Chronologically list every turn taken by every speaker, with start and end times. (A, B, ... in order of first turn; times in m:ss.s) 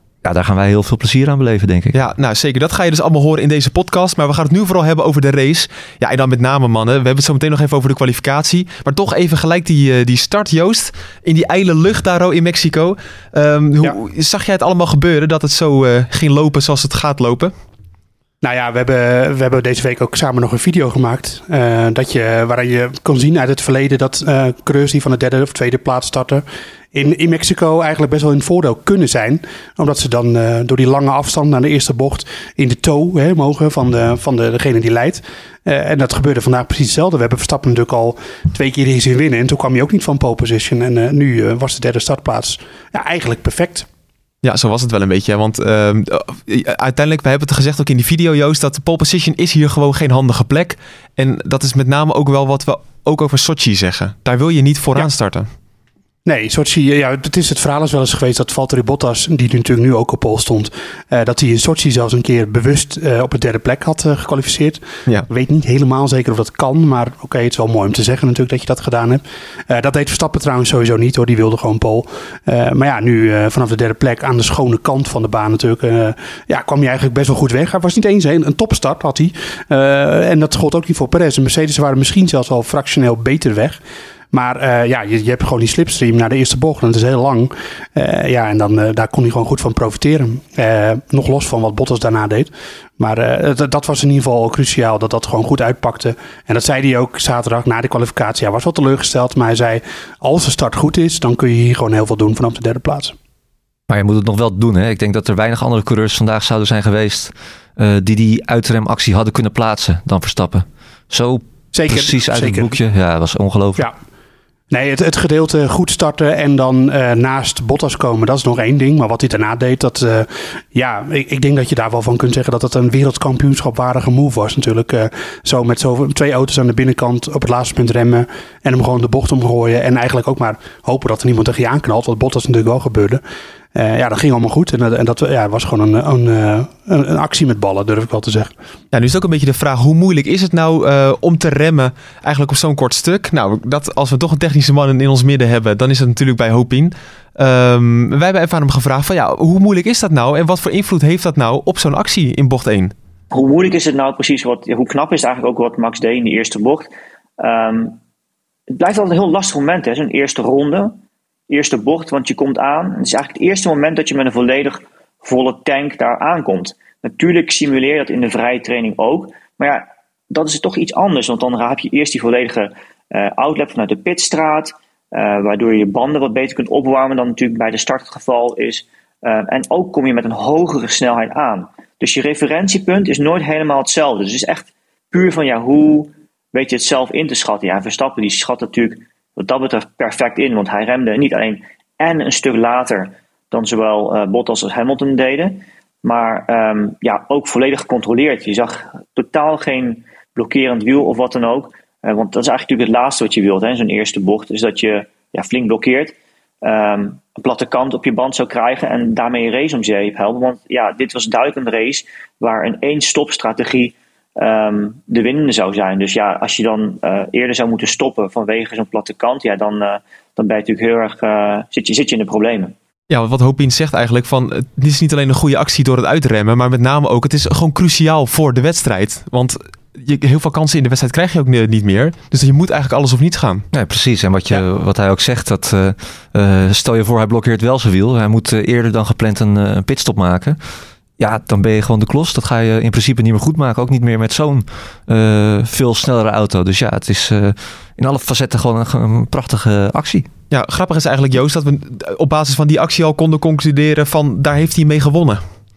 0:00.2-0:02.0 A
0:01.9-0:17.5 B
0:18.4-0:43.9 C
0:44.4-0:55.5 B
0:56.3-1:23.8 C
1:24.3-1:43.2 C
1:43.9-1:53.8 A
1:51.7-1:52.8 C
1:54.7-2:13.2 C
2:13.8-2:18.5 C
2:18.9-2:32.9 B
2:33.3-2:38.0 D
2:38.7-3:42.7 D
3:43.1-3:53.7 B
3:53.7-4:00.6 A
4:01.2-4:10.3 A
4:10.5-4:15.4 B